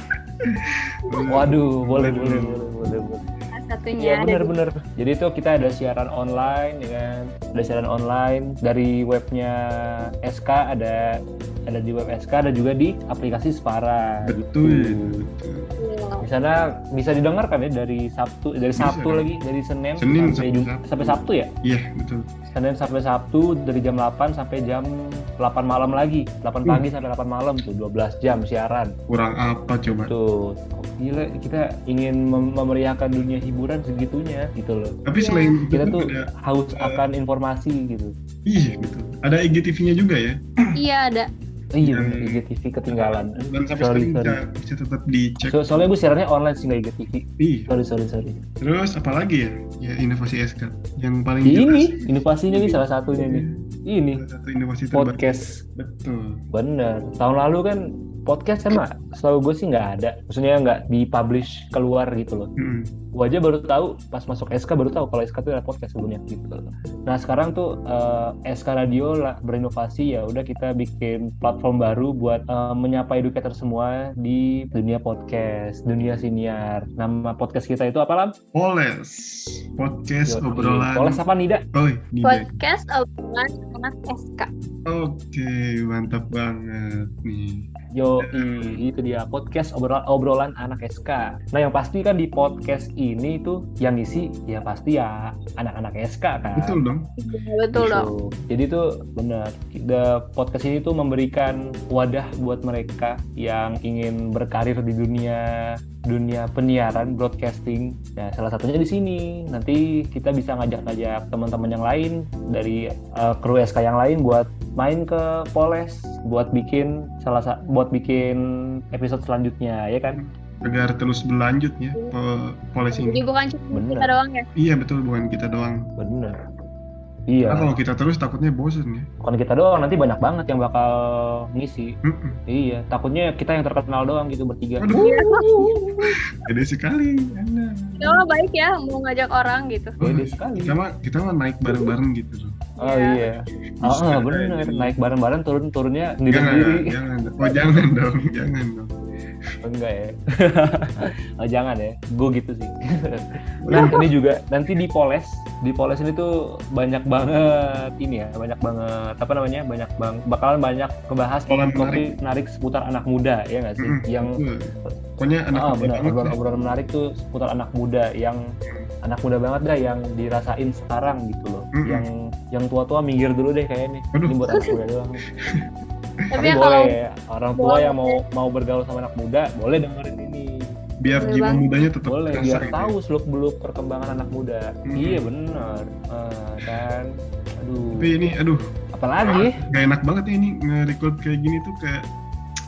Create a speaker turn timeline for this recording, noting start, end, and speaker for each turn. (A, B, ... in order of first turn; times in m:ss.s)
0:00.4-0:02.7 A
0:01.3-0:03.2 B
0:03.5-0:04.5 C
0:04.0-0:15.2 B
0:14.2-0:15.8 A
0:15.8-0:16.2 C
0:16.2-0:21.5 B
0:18.8-0:19.3 A
0:20.0-0:22.3 A
0:22.5-0:29.0 B
0:29.1-0:30.1 A
0:30.0-0:35.0 B
0:35.0-0:37.0 A
0:35.1-0:35.6 C
0:35.7-0:38.1 B
0:38.5-0:40.5 A
0:40.8-0:41.3 C
0:41.7-0:44.4 B
0:41.8-0:45.8 A
0:45.5-0:48.4 B
0:47.4-0:47.7 A
0:48.6-0:56.4 A
0:51.4-0:54.2 B
0:54.9-0:55.6 B
0:56.5-1:02.5 B
1:02.6-1:03.0 A
1:03.1-1:18.3 B
1:18.5-1:21.2 A
1:20.2-1:21.6 B
1:21.7-1:22.5 A
1:22.2-1:24.5 C
1:24.8-1:27.7 A
1:27.9-1:36.8 B
1:28.2-1:28.8 A
1:36.5-1:37.1 A
1:37.2-1:38.1 C
1:37.7-2:00.2 B
2:00.1-2:03.2 A
2:02.9-2:04.4 C
2:03.7-2:04.1 B
2:04.6-2:05.9 A
2:06.0-2:06.4 B
2:07.3-2:07.7 B
2:07.4-2:09.1 A
2:09.2-2:11.9 B
2:12.0-2:12.4 A
2:12.5-2:14.9 B
2:14.8-2:18.2 A
2:15.0-2:16.2 C
2:18.0-2:20.0 C
2:20.0-2:22.5 A
2:20.0-2:20.8 B
2:22.8-2:23.2 C
2:22.8-2:26.9 B
2:23.8-2:24.9 A
2:26.3-2:28.9 A
2:29.6-2:44.9 B
2:33.6-2:34.1 A
2:41.5-2:42.1 A
2:43.8-2:46.4 A
2:45.5-2:48.4 B
2:49.0-2:55.2 B
2:51.7-2:52.1 A
2:54.1-2:54.8 A
2:56.3-2:56.9 C
2:56.4-3:00.6 B
2:57.6-2:58.2 C
3:01.0-3:02.9 A
3:01.1-3:01.7 C
3:02.0-3:07.1 B
3:04.9-3:05.3 A
3:07.6-3:08.1 B
3:07.9-3:08.6 A
3:08.9-3:09.6 B
3:09.2-3:12.1 A